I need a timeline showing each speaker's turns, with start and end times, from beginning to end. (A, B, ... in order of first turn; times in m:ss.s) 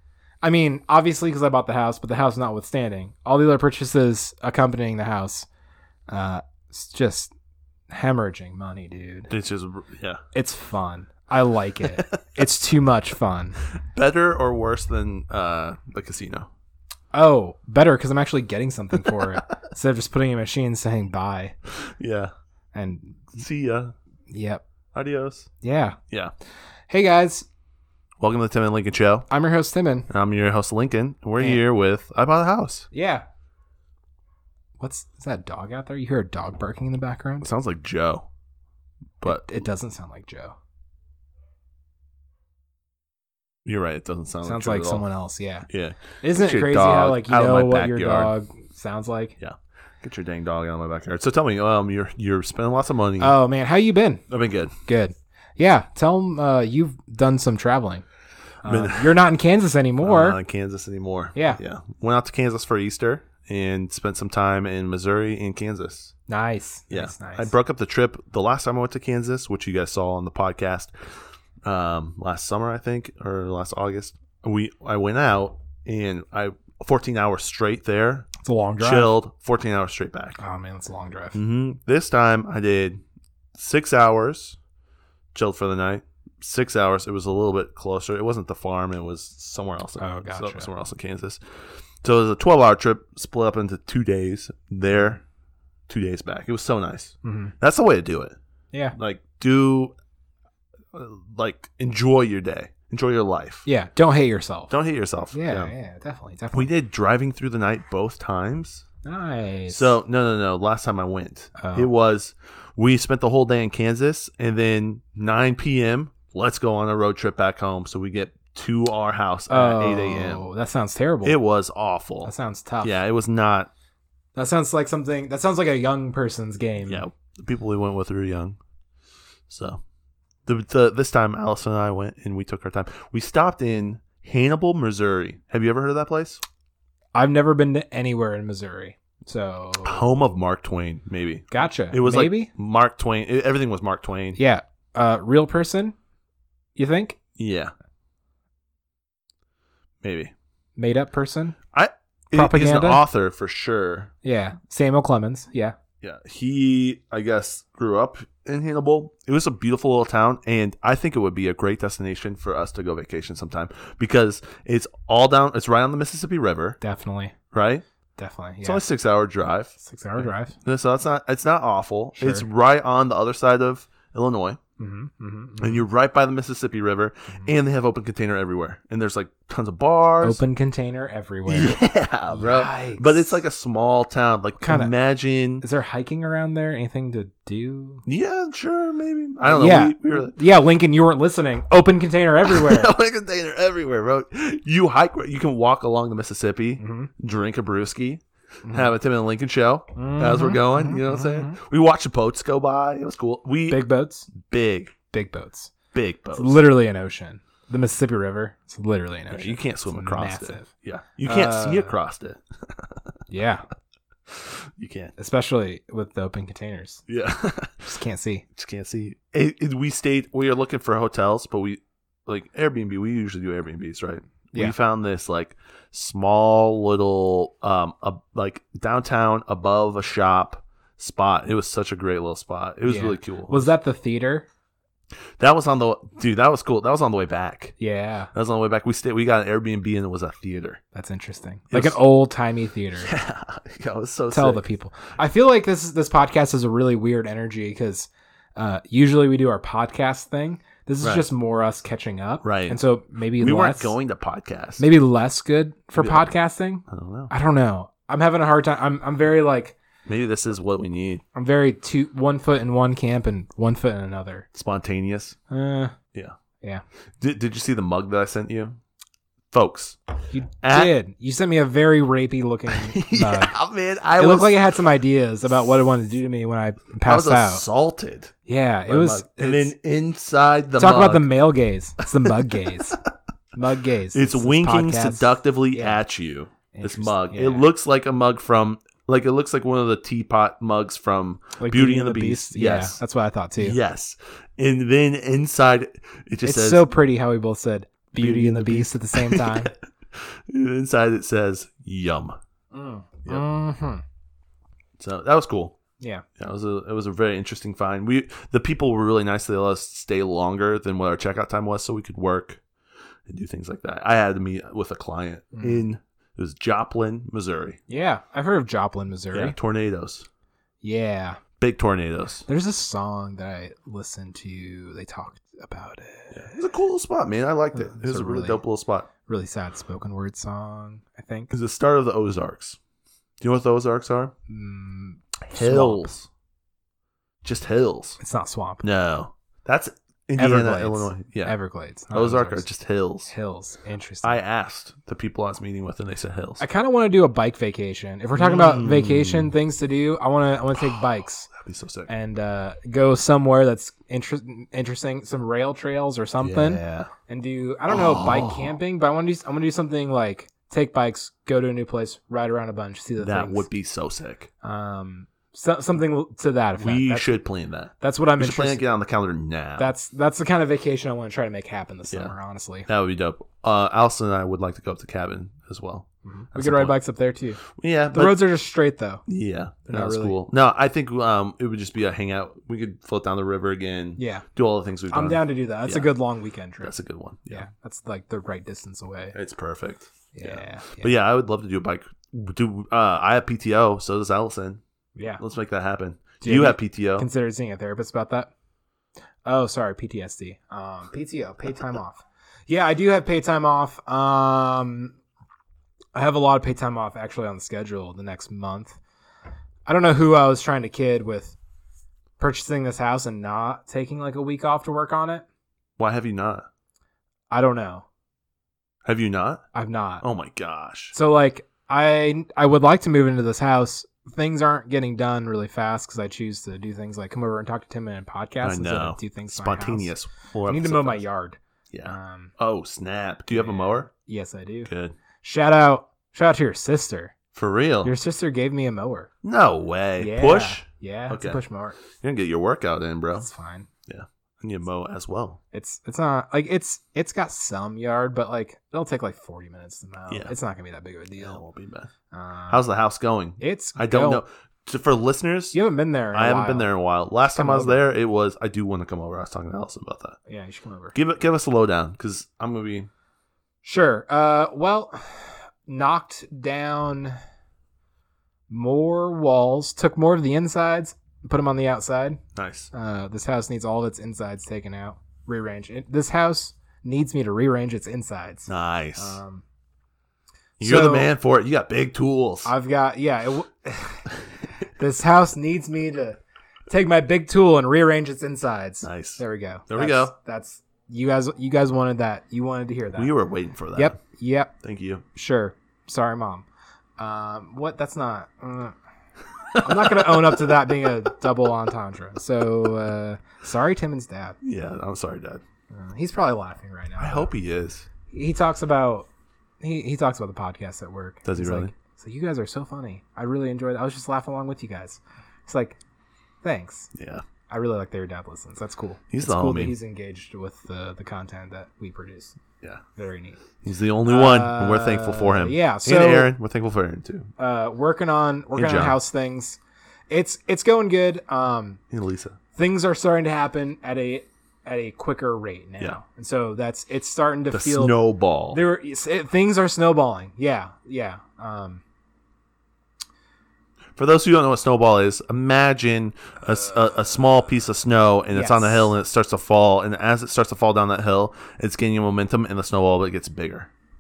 0:00.4-0:05.5 A
0:06.1-0:07.3 A
0:07.9-0:09.3 A
0:09.3-0:10.2 B
0:10.3-0:13.6 A
0:13.8-0:16.5 B
0:17.1-0:21.6 A
0:21.8-0:22.3 B
0:22.7-0:23.3 A
0:23.3-0:23.9 B
0:24.3-0:24.6 A
0:24.9-0:25.5 B
0:25.6-0:26.0 A
0:26.9-0:27.5 A
0:28.2-0:29.3 B
0:29.3-0:30.1 A
0:30.1-0:32.9 B
0:32.9-0:33.2 A
0:34.8-0:37.5 A
0:37.4-0:38.3 B
0:39.2-0:39.5 B
0:39.2-0:40.6 A
0:43.6-0:45.0 B
0:44.4-0:45.7 A
0:45.7-0:48.3 B
0:46.2-0:49.4 A
0:49.4-0:53.4 B
0:53.2-0:54.2 A
0:54.3-0:54.8 B
0:54.9-0:58.0 A
0:58.6-1:00.4 A
0:58.7-0:59.2 B
1:00.0-1:06.1 B
1:01.4-1:01.6 A
1:06.3-1:07.5 A
1:06.9-1:10.9 B
1:11.6-1:18.3 B
1:18.4-1:19.2 A
1:18.8-1:20.4 B
1:20.4-1:21.4 A
1:21.4-1:23.0 B
1:23.6-1:24.6 B
1:25.3-1:35.2 B
1:30.0-1:30.7 A
1:35.9-1:38.4 B
1:37.2-1:37.5 A
1:39.0-1:40.0 B
1:40.9-1:43.7 B
1:43.7-1:44.7 A
1:44.7-1:45.7 B
1:45.3-1:46.7 A
1:46.5-1:48.9 B
1:49.0-1:50.0 A
1:49.7-2:00.4 B
1:51.6-1:51.9 A
1:59.5-2:01.4 A
2:01.2-2:03.7 B
2:02.2-2:03.0 A
2:04.4-2:07.1 A
2:06.9-2:08.6 B
2:09.5-2:09.8 B
2:10.5-2:16.4 B
2:17.1-2:20.1 A
2:19.8-2:24.4 B
2:21.5-2:22.5 A
2:24.4-2:26.0 A
2:26.8-2:27.2 A
2:27.4-2:27.7 B
2:30.0-2:30.3 B
2:30.8-2:31.6 A
2:31.7-2:34.1 B
2:32.3-2:33.0 A
2:34.2-2:35.8 A
2:36.0-2:46.8 B
2:46.8-2:47.4 A
2:47.5-2:47.8 B
2:48.2-2:48.8 A
2:48.6-2:54.6 B
2:49.8-2:50.6 A
2:52.2-2:52.5 A
2:54.8-2:55.8 A
2:55.6-3:00.4 B
3:00.2-3:01.8 A
3:01.5-3:05.6 B
3:02.3-3:03.4 A
3:04.6-3:04.9 A
3:05.6-3:08.0 A
3:08.1-3:10.4 B
3:09.4-3:12.9 A
3:12.4-3:25.0 B
3:16.8-3:17.1 A
3:18.6-3:18.9 A
3:20.0-3:21.6 A
3:23.7-3:24.3 A
3:25.1-3:25.7 A
3:25.9-3:26.6 B
3:26.3-3:30.7 A
3:29.3-3:33.2 B
3:31.2-3:32.0 A
3:33.3-3:33.7 A
3:34.3-3:35.1 B
3:35.2-3:37.0 A
3:37.1-3:37.9 B
3:37.8-3:38.5 A
3:38.6-3:53.7 B
3:52.8-3:54.5 A
3:55.4-3:57.8 B
3:57.8-3:58.3 A
3:58.3-4:00.8 B
4:00.9-4:03.1 A
4:01.7-4:02.0 B
4:03.0-4:04.6 B
4:04.3-4:13.9 A
4:11.0-4:11.3 B
4:12.4-4:12.8 B
4:13.4-4:14.8 B
4:14.8-4:19.8 A
4:16.0-4:16.3 B
4:16.9-4:17.3 B
4:20.1-4:21.2 B
4:21.3-4:24.5 A
4:24.5-4:25.4 B
4:25.5-4:26.0 A
4:27.2-4:28.8 B
4:29.5-4:30.0 B
4:30.3-4:33.6 A
4:30.6-4:30.9 B
4:32.7-4:34.7 B
4:34.2-4:37.6 A
4:37.0-4:38.3 B
4:38.5-4:39.7 A
4:38.9-4:41.3 B
4:40.8-4:43.0 A
4:42.2-4:43.0 B
4:43.6-4:46.0 A
4:44.1-4:53.0 B
4:46.7-4:47.7 A
4:51.6-4:53.8 A
4:53.6-4:56.8 B
4:56.4-4:59.7 A
4:58.2-5:02.4 B
5:02.7-5:04.0 A
5:05.0-5:05.8 B
5:06.0-5:06.2 A
5:06.4-5:12.6 B
5:13.3-5:17.8 B
5:15.5-5:15.8 A
5:17.9-5:19.6 A
5:19.3-5:20.3 B
5:20.8-5:21.4 A
5:21.6-5:22.4 B
5:22.5-5:26.6 A
5:26.3-5:29.1 B
5:27.7-5:28.6 A
5:29.3-5:31.5 A
5:31.5-5:32.8 B
5:33.4-5:34.4 B
5:34.5-5:36.1 A
5:35.5-5:36.3 B
5:37.4-5:38.2 B
5:38.2-5:38.8 A
5:38.8-5:41.6 B
5:40.4-5:42.7 A
5:42.1-5:43.3 B
5:43.3-5:44.4 A
5:44.2-5:46.6 B
5:46.6-5:51.5 A
5:48.4-5:49.5 B
5:50.8-5:52.1 B
5:52.1-6:03.7 A
5:56.4-5:57.1 B
5:57.9-5:58.7 B
6:03.2-6:04.5 B
6:04.6-6:07.4 A
6:06.8-6:09.9 B
6:08.0-6:08.8 A
6:09.8-6:12.9 A
6:12.9-6:17.0 B
6:16.2-6:19.2 A
6:17.7-6:18.4 B
6:19.3-6:26.1 B
6:19.9-6:20.4 A
6:24.2-6:24.5 A
6:25.1-6:27.0 A
6:26.8-6:27.7 B
6:27.5-6:29.4 A
6:29.4-6:34.8 B
6:30.3-6:31.2 A
6:35.2-6:35.4 A
6:35.4-6:37.3 B
6:36.4-6:38.5 A
6:39.4-6:45.2 A
6:46.1-6:49.0 A
6:49.9-6:51.6 A
6:52.4-6:55.4 A
6:56.0-6:56.7 B
6:57.5-6:58.1 A
6:59.0-6:59.6 B
6:59.7-7:00.3 A
7:00.2-7:01.2 B
7:01.1-7:10.1 A
7:08.6-7:11.2 B
7:10.7-7:12.5 A
7:11.9-7:14.1 B
7:13.5-7:14.9 A
7:14.9-7:15.2 B
7:15.4-7:17.4 A
7:17.6-7:18.1 B
7:18.0-7:19.3 A
7:19.4-7:21.6 B
7:20.2-7:22.0 A
7:22.1-7:23.5 B
7:23.4-7:23.9 A
7:24.1-7:25.6 B
7:25.7-7:31.6 A
7:30.3-7:30.5 B
7:31.4-7:32.1 B
7:32.3-7:32.8 A
7:32.7-7:35.8 B
7:33.6-7:34.4 A
7:35.7-7:36.9 A
7:36.3-7:40.4 B
7:37.5-7:38.0 A
7:40.5-7:41.2 A
7:41.2-7:43.1 B
7:43.8-7:47.4 A
7:48.7-7:52.4 A
7:52.6-7:52.9 B
7:52.9-7:59.6 A
7:58.7-7:59.4 B
8:00.8-8:01.3 A
8:00.8-8:02.7 B
8:02.6-8:04.3 A
8:05.0-8:13.3 A
8:09.0-8:10.3 B
8:13.2-8:14.2 B
8:14.0-8:14.7 A
8:14.8-8:15.2 B
8:15.4-8:16.7 A
8:17.2-8:19.0 A
8:19.7-8:20.8 B
8:19.8-8:24.6 A
8:24.6-8:25.6 B
8:25.9-8:27.5 A
8:27.2-8:28.1 B
8:28.3-8:29.3 A
8:29.8-8:36.0 A
8:31.4-8:31.9 B
8:36.6-8:37.1 A
8:37.2-8:37.4 B
8:37.7-8:42.6 A
8:39.3-8:39.9 B
8:43.2-8:43.6 A
8:43.8-8:47.5 B
8:44.2-8:46.5 A
8:47.6-8:49.8 A
8:48.8-8:49.2 B
8:50.3-8:52.0 A
8:52.1-8:52.6 B
8:52.8-8:58.2 A
8:57.7-8:58.8 B
8:58.7-9:02.0 A
9:04.2-9:13.9 B
9:08.5-9:09.1 A